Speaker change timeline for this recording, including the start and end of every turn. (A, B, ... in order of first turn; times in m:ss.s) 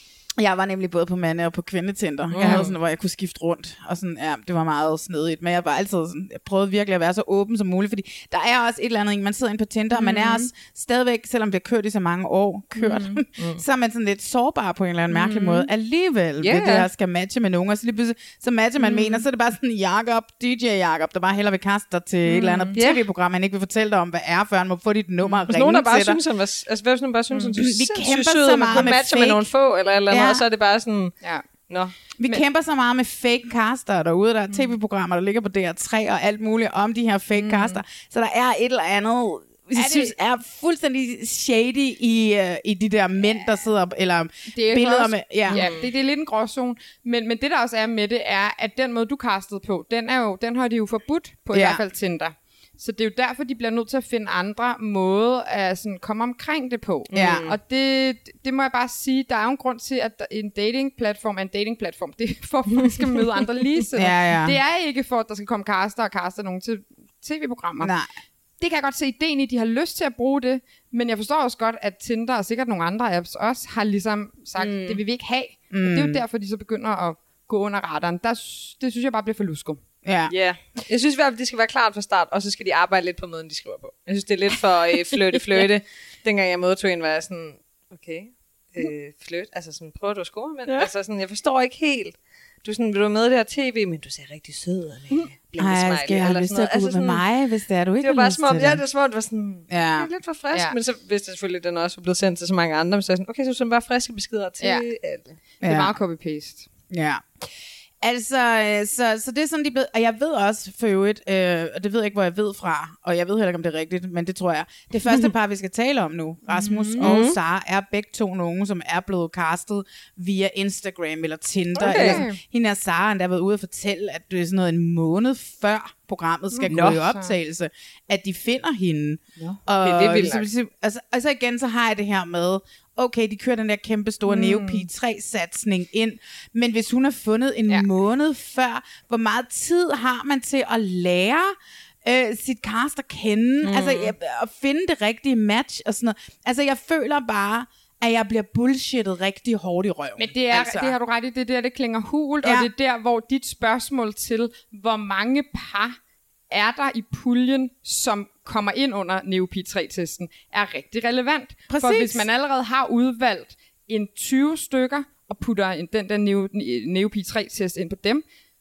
0:00.4-0:26.2 A
0:02.3-0:02.7 B
0:10.0-0:10.5 C
0:12.8-0:13.2 C
0:15.1-0:15.7 C
0:16.4-0:16.9 B
0:18.8-0:19.2 C
0:22.3-0:22.7 C
0:22.8-0:23.0 B
0:25.5-0:31.1 B
0:27.6-0:29.5 A
0:30.1-0:30.4 A
0:32.2-0:45.6 A
0:37.4-0:37.8 C
0:39.8-0:40.1 C
0:44.5-1:07.9 C
0:45.5-0:45.8 B
0:51.5-0:51.8 A
0:57.1-0:57.6 B
0:57.1-0:57.5 A
1:04.0-1:04.6 A
1:07.8-1:08.1 A
1:08.6-1:19.8 C
1:14.6-1:15.0 B
1:15.7-1:16.2 A
1:20.0-1:20.3 A
1:20.3-1:37.2 B
1:35.6-1:38.8 A
1:38.0-1:45.4 B
1:39.7-1:40.1 A
1:45.6-1:46.7 C
1:45.6-1:45.9 A
1:46.9-1:47.2 A
1:48.0-2:31.0 A
1:56.5-1:57.0 C
1:57.0-1:57.4 B
2:01.8-2:02.2 B
2:01.9-2:02.4 C
2:06.5-2:07.3 C
2:06.7-2:07.0 B
2:09.8-2:10.5 B
2:14.3-2:14.9 C
2:23.6-2:24.1 B
2:30.2-2:36.0 C
2:32.4-2:32.7 A
2:36.5-2:48.2 C
2:41.7-2:42.2 A